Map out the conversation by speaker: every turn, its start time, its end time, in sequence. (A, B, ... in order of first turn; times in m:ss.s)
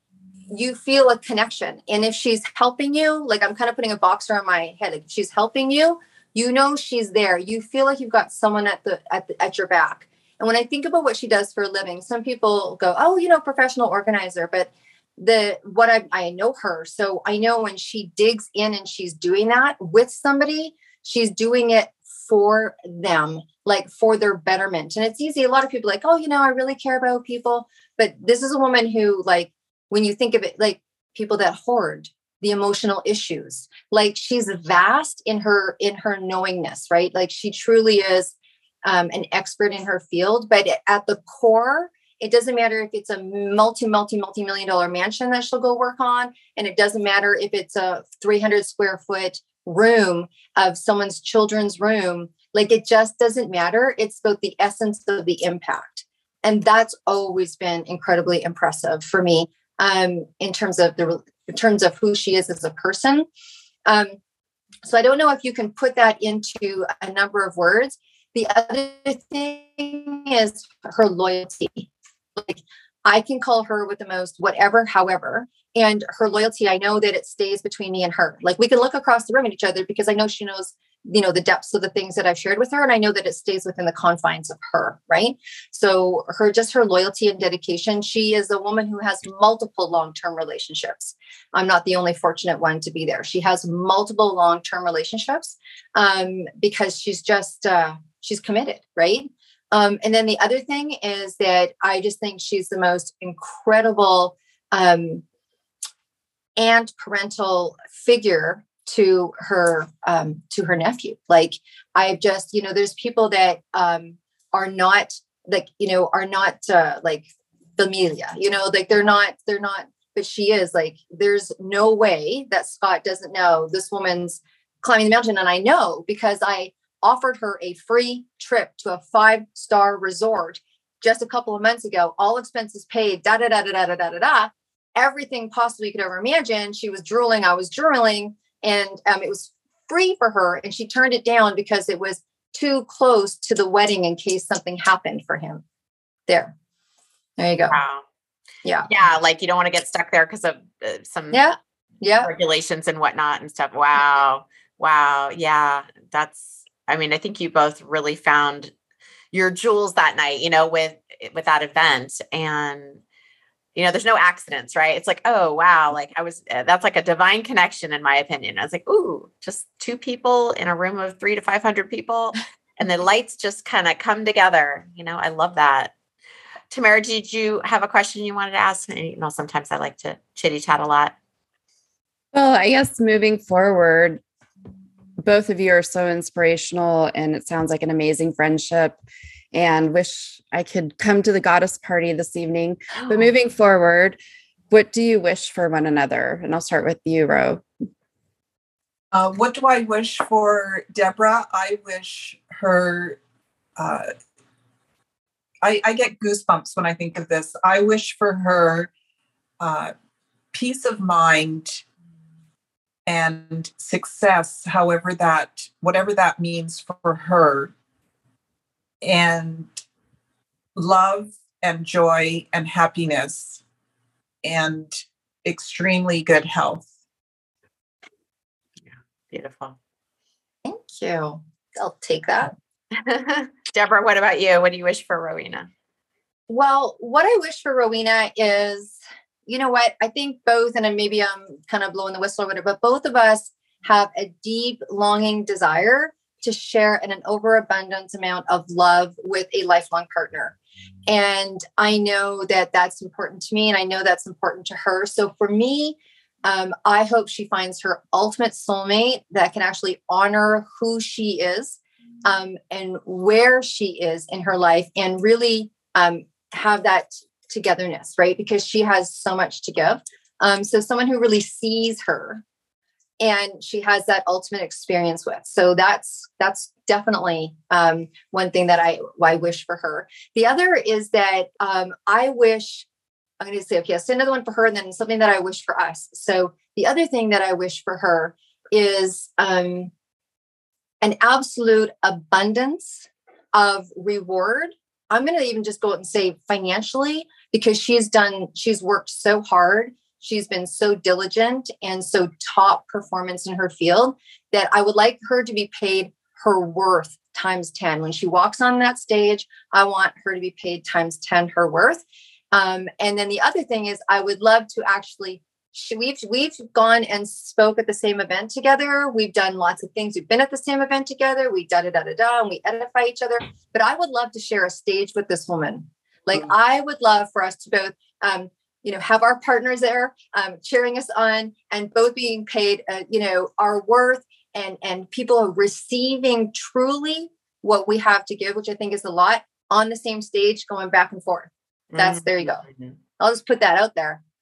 0:00.5-1:03.3 A
1:03.9-1:04.2 A
1:04.8-1:45.2 A
1:46.6-2:25.6 A
2:26.3-2:26.5 A
2:27.4-2:27.8 A
2:27.7-2:28.0 B
2:28.9-2:31.4 B
2:31.3-2:32.3 A
2:32.2-2:38.7 B
2:39.3-2:43.0 B
2:43.8-2:55.9 B
2:56.7-3:01.2 B
3:02.3-3:04.2 C
3:05.2-3:09.0 C
3:09.5-3:14.2 C
3:13.0-3:13.3 B
3:14.7-3:17.6 C
3:19.1-3:23.2 D
3:23.8-3:24.1 D
3:25.6-3:28.9 D
3:29.6-3:29.9 D
3:30.5-3:31.8 D
3:33.1-3:37.7 D
3:39.0-3:39.8 D
3:40.8-3:43.6 D
3:44.4-3:46.9 D
3:49.3-3:49.8 B
3:50.6-3:52.5 A
3:53.0-3:55.7 B
3:56.5-4:10.6 A
4:11.1-4:32.4 A
4:33.2-4:42.9 A
4:43.4-4:49.9 A
4:51.0-5:42.6 A
5:41.9-5:43.0 B
5:43.2-5:44.2 A